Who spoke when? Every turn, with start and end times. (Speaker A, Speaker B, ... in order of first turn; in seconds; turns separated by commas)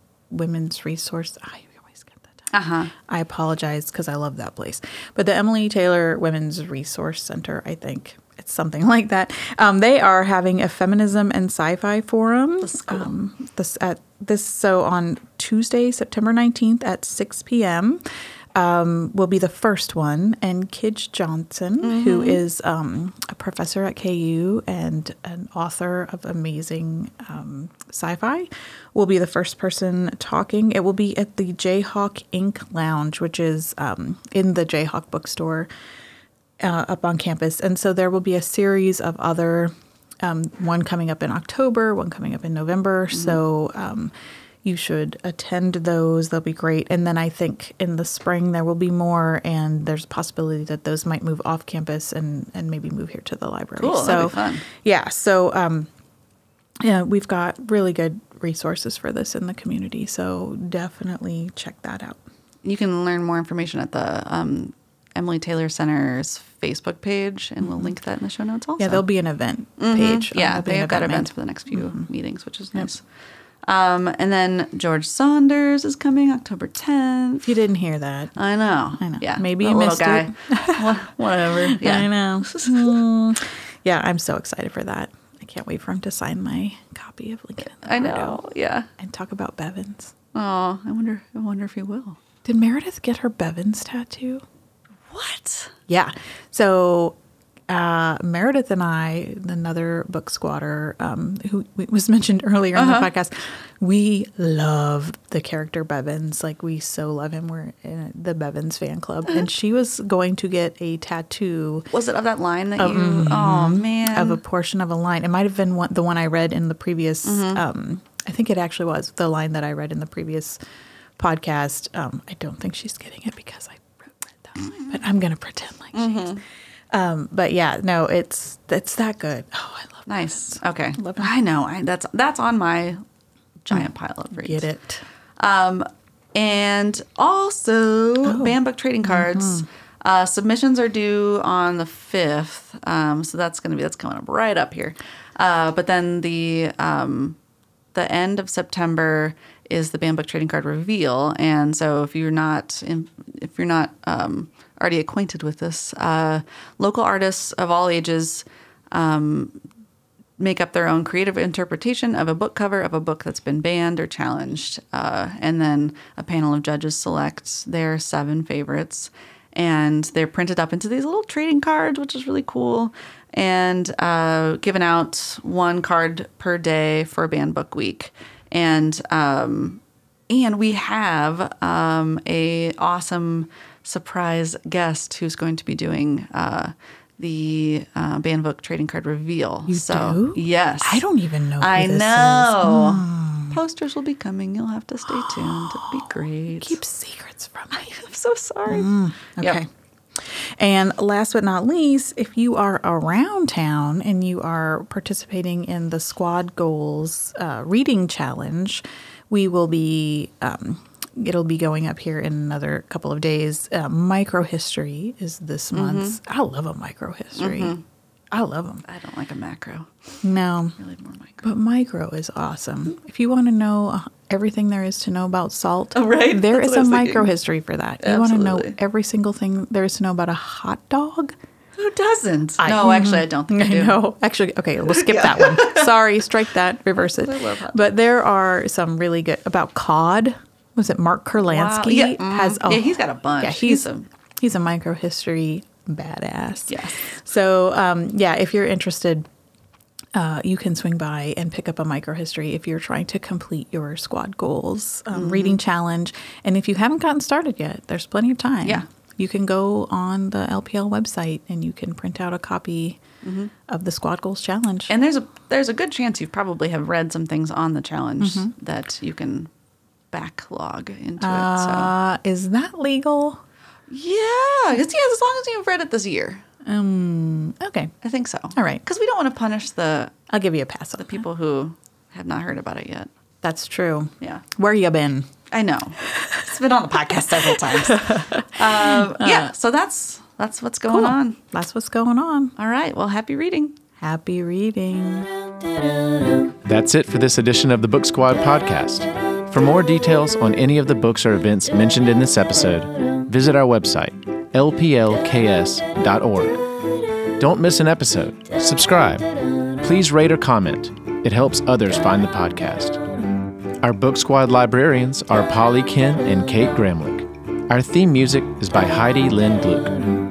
Speaker A: 0.3-2.5, Speaker B: 2.5-2.9, Speaker A: 3.0-18.0, Speaker B: 12.6-13.1, Speaker A: 18.5-35.7, Speaker B: 21.8-22.4, Speaker A: 36.6-44.1, Speaker A: 44.6-55.9, Speaker B: 53.8-54.6, Speaker A: 56.8-62.2, Speaker B: 62.6-69.0, Speaker A: 67.6-67.9, Speaker A: 68.8-72.0, Speaker B: 69.8-73.0, Speaker B: 73.6-77.5, Speaker A: 77.4-78.3, Speaker B: 78.3-83.0, Speaker A: 79.0-88.4, Speaker B: 87.6-88.9, Speaker A: 89.0-90.1, Speaker B: 90.3-92.2, Speaker A: 92.4-94.4, Speaker B: 95.1-95.7, Speaker A: 95.9-97.2, Speaker A: 97.7-111.9, Speaker B: 102.7-103.1, Speaker B: 111.9-114.4, Speaker A: 112.8-120.6, Speaker B: 117.2-117.6, Speaker A: 121.2-131.3, Speaker B: 124.6-124.9, Speaker B: 125.9-126.4, Speaker B: 130.1-133.0, Speaker B: 133.6-134.7, Speaker A: 133.7-135.0, Speaker B: 135.4-147.4, Speaker A: 138.2-139.6, Speaker B: 147.9-159.6, Speaker B: 160.4-191.0, Speaker A: 189.7-193.6, Speaker B: 191.6-196.8, Speaker A: 195.1-197.9, Speaker B: 197.7-199.6, Speaker A: 198.7-217.7, Speaker B: 215.7-216.2, Speaker B: 217.3-217.8, Speaker A: 218.3-218.8, Speaker B: 218.8-219.9, Speaker A: 220.2-220.8, Speaker B: 220.8-221.4, Speaker A: 221.4-231.3, Speaker B: 225.9-227.3, Speaker B: 228.0-228.8, Speaker B: 231.8-234.0, Speaker A: 232.6-243.8, Speaker B: 234.9-236.0, Speaker B: 236.9-237.9, Speaker B: 241.4-244.1, Speaker A: 244.4-249.3, Speaker B: 246.7-247.0, Speaker A: 250.1-263.0, Speaker B: 255.1-255.6, Speaker B: 263.2-263.5, Speaker A: 263.6-264.9, Speaker B: 264.9-269.5, Speaker A: 268.2-268.5, Speaker B: 270.1-271.9, Speaker A: 271.2-273.4, Speaker B: 273.9-276.4, Speaker A: 276.6-277.9, Speaker B: 278.0-280.1, Speaker A: 278.6-278.8, Speaker A: 280.3-281.2, Speaker B: 281.0-283.1, Speaker A: 283.4-285.3, Speaker B: 285.5-291.4, Speaker A: 286.1-286.4, Speaker A: 286.9-289.5, Speaker A: 290.9-292.5, Speaker B: 292.6-293.8, Speaker A: 294.0-295.3, Speaker C: 296.6-306.6, Speaker C: 307.4-309.3, Speaker C: 309.8-313.0, Speaker C: 313.8-320.0